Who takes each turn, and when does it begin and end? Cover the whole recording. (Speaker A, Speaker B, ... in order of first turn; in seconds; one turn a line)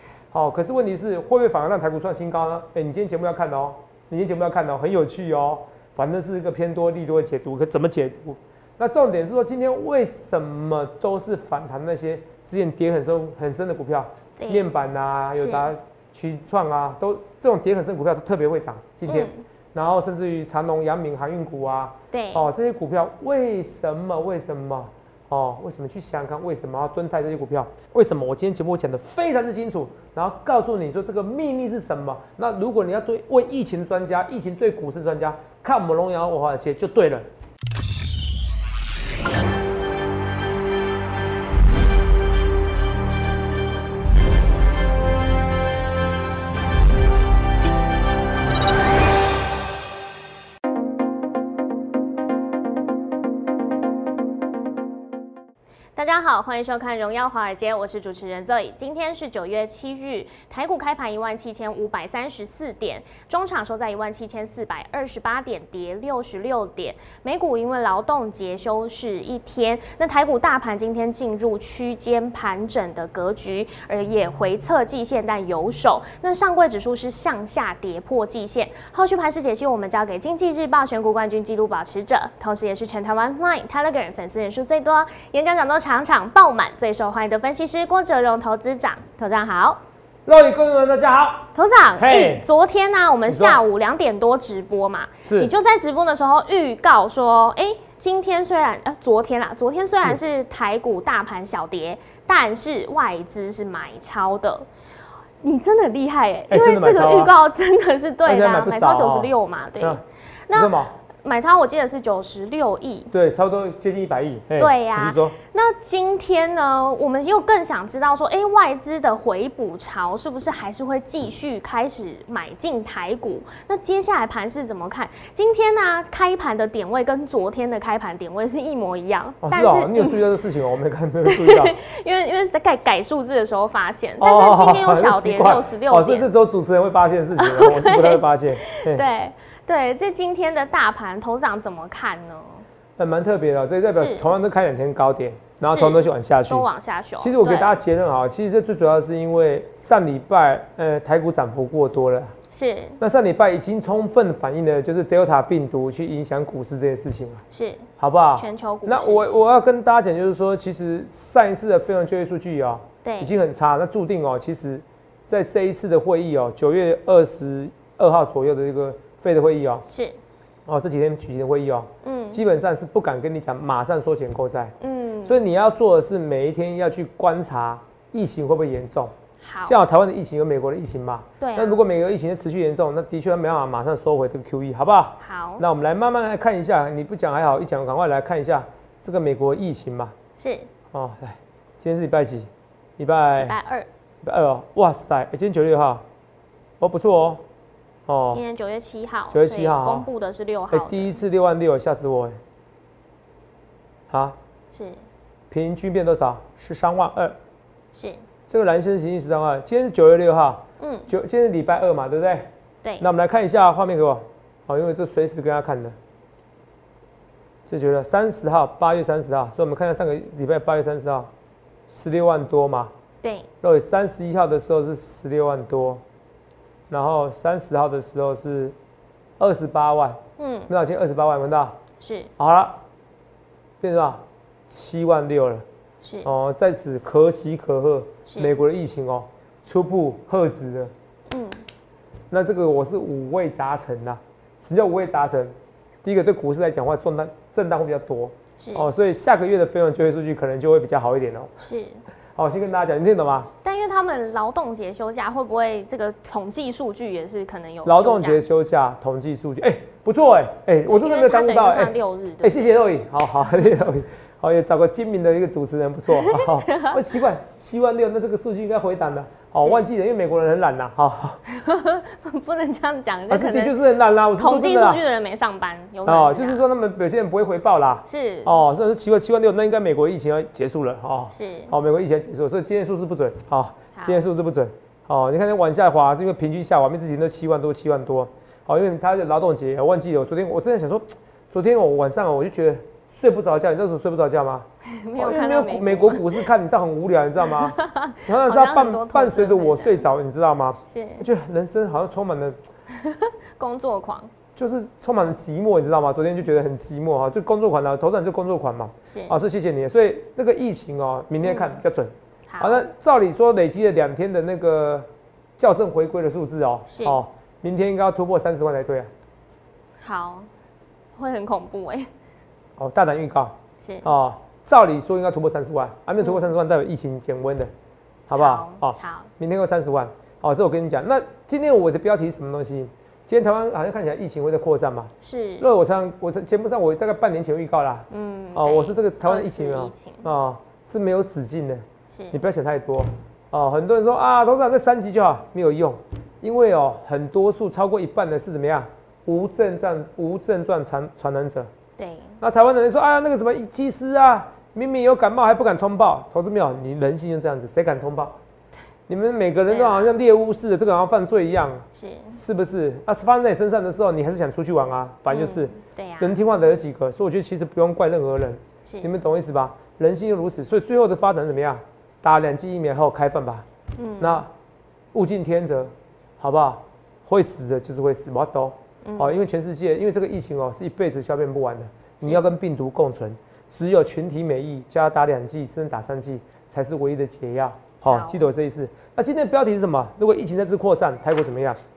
Speaker A: 0.3-37.3
Speaker B: 14.4-14.7
Speaker B: 15.4-15.7
Speaker B: 19.1-19.4
Speaker B: 22.1-22.5
Speaker B: 56.0-89.8
Speaker A: 90.2-92.5
Speaker B: 91.5-104.7
Speaker A: 93.2-93.6
Speaker A: 95.2-95.5
Speaker B: 105.4-113.1
Speaker A: 106.5-107.3
Speaker A: 108.2-110.0
Speaker A: 110.5-110.9
Speaker A: 113.1-115.3
Speaker B: 114.6-130.2
Speaker A: 129.4-131.7
Speaker B: 131.2-136.3
Speaker A: 134.2-139.0
Speaker B: 137.4-142.6
Speaker A: 143.0-146.7
Speaker B: 143.9-144.3
Speaker B: 145.6-147.8
Speaker A: 147.2-152.3
Speaker B: 152.5-153.0
Speaker A: 153.0-157.4
Speaker B: 157.5-159.4
Speaker A: 158.0-169.8
Speaker B: 163.0-163.3
Speaker B: 169.9-170.2
Speaker A: 170.7-174.7
Speaker B: 172.0-172.4
Speaker B: 174.8-175.4
Speaker A: 175.2-179.1
Speaker B: 179.4-179.8
Speaker A: 179.7-190.1
Speaker B: 181.4-181.8
Speaker B: 185.2-185.6
Speaker B: 190.4-190.7
Speaker A: 190.9-193.5
Speaker B: 193.4-193.9
Speaker A: 194.2-196.0
Speaker A: 196.8-197.4
Speaker A: 198.1-198.4
Speaker B: 198.3-201.2
Speaker A: 199.3-200.1
Speaker A: 200.7-202.4
Speaker A: 204.1-204.4
Speaker B: 204.7-205.0
Speaker A: 205.5-207.4
Speaker B: 207.9-208.2
Speaker A: 208.5-212.5
Speaker B: 210.8-211.1
Speaker A: 213.0-215.9
Speaker A: 217.7-221.3
Speaker A: 221.9-222.9
Speaker B: 223.2-223.5
Speaker A: 223.6-226.0
Speaker A: 226.9-228.8
Speaker A: 229.4-231.8
Speaker B: 230.4-230.7
Speaker B: 232.0-232.3
Speaker A: 232.4-232.8
Speaker A: 233.8-235.6
Speaker B: 236.0-236.3
Speaker A: 236.2-240.9
Speaker B: 238.2-238.6
Speaker B: 241.3-241.6
Speaker A: 242.3-245.5
Speaker A: 246.0-251.5
Speaker B: 248.6-248.9
Speaker B: 251.6-252.0
Speaker A: 252.3-253.5
Speaker B: 253.6-258.4
Speaker A: 257.8-271.4
Speaker B: 260.9-262.7
Speaker B: 266.1-267.0
Speaker B: 269.6-269.9
Speaker B: 271.5-273.8
Speaker A: 273.3-275.0
Speaker B: 274.4-276.6
Speaker A: 276.1-302.6
Speaker B: 278.1-278.6
Speaker B: 281.3-281.7
Speaker B: 283.9-284.2
Speaker B: 294.8-296.4
Speaker B: 297.5-300.1
Speaker B: 300.9-301.3
Speaker B: 302.9-304.3
Speaker A: 304.6-315.1
Speaker B: 309.1-309.4
Speaker B: 311.4-311.8
Speaker B: 312.5-312.8
Speaker A: 315.6-319.1
Speaker B: 316.9-317.2
Speaker B: 320.0-320.5
Speaker B: 321.1-322.1
Speaker A: 322.8-327.7
Speaker B: 323.8-324.1
Speaker A: 328.3-351.7
Speaker B: 328.3-329.3
Speaker B: 335.2-335.7
Speaker B: 338.1-340.2
Speaker B: 342.1-342.4
Speaker B: 352.0-352.4
Speaker A: 352.4-358.4
Speaker A: 359.1-373.6
Speaker B: 359.7-360.1
Speaker B: 361.9-362.4
Speaker B: 365.3-366.4
Speaker B: 368.8-369.1
Speaker B: 374.0-374.4
Speaker A: 374.2-374.5
Speaker A: 375.1-391.8
Speaker B: 379.0-379.3
Speaker B: 388.0-388.5